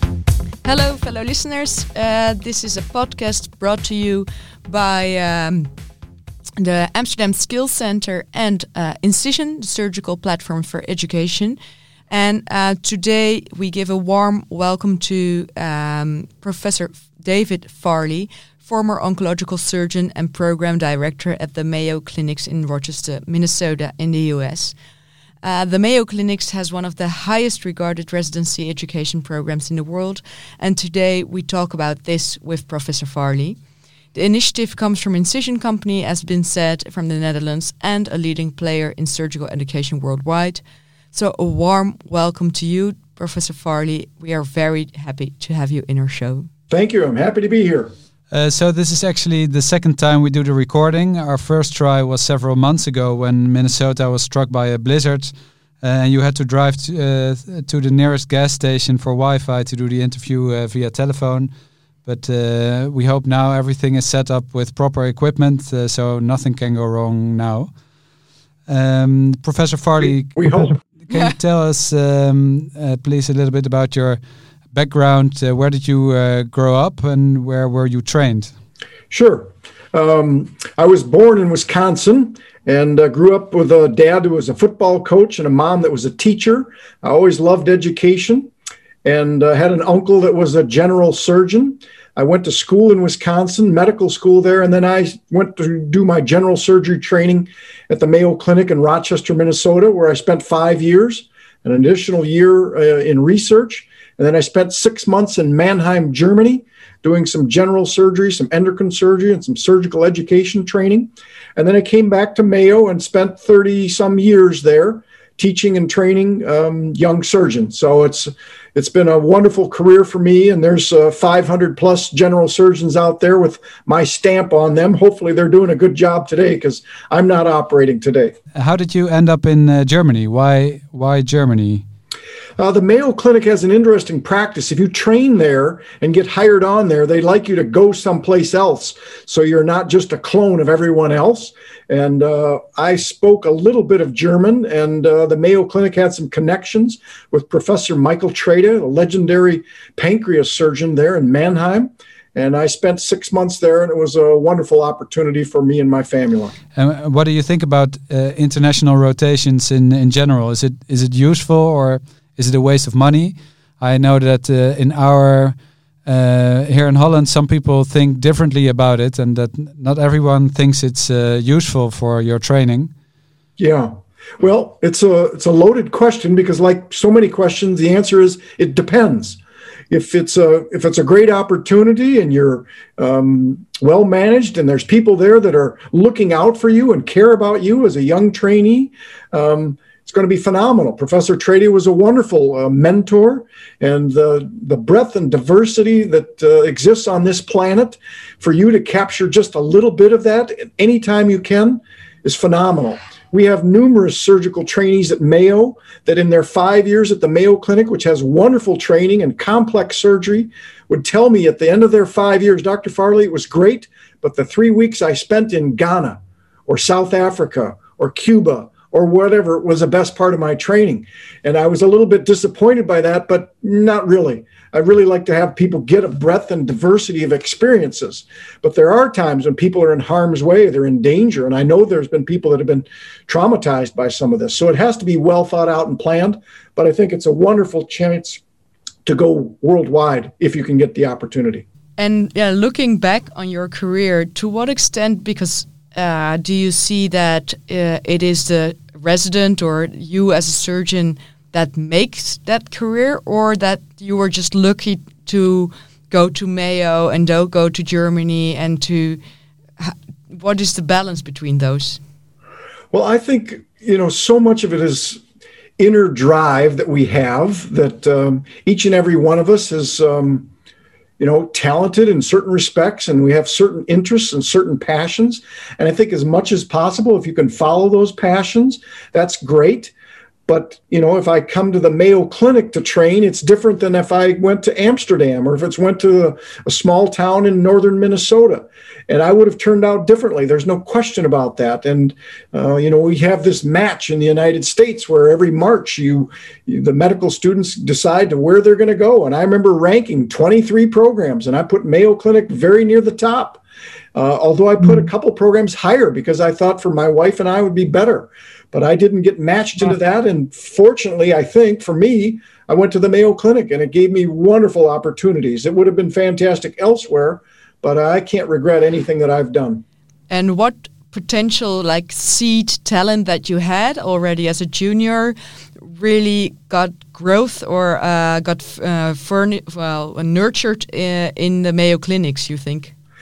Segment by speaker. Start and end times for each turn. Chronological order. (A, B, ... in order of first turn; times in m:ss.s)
0:00.6-0:05.7 A
0:06.6-0:11.6 A
0:12.1-0:24.8 A
0:25.4-0:33.6 A
0:34.1-0:40.6 A
0:41.1-0:46.5 A
0:46.7-0:47.9 B
0:48.3-1:01.5 C
1:02.0-1:07.7 C
1:08.7-1:14.2 C
1:10.0-1:10.8 B
1:14.7-1:18.5 C
1:19.1-1:28.5 B
1:29.0-2:08.3 B
2:08.6-2:11.8 C
2:12.6-2:36.6 B
2:36.8-2:52.9 C
2:53.6-2:59.4 B
2:59.9-3:58.4 B
3:59.0-4:01.6 B
4:02.0-4:19.2 A
4:19.8-4:22.0 A
4:22.9-4:25.2 B
4:25.8-4:30.5 B
4:31.2-4:39.9 B
4:40.5-5:03.6 B
5:04.2-5:19.8 B
5:20.3-5:25.4 A
5:25.9-5:32.9 A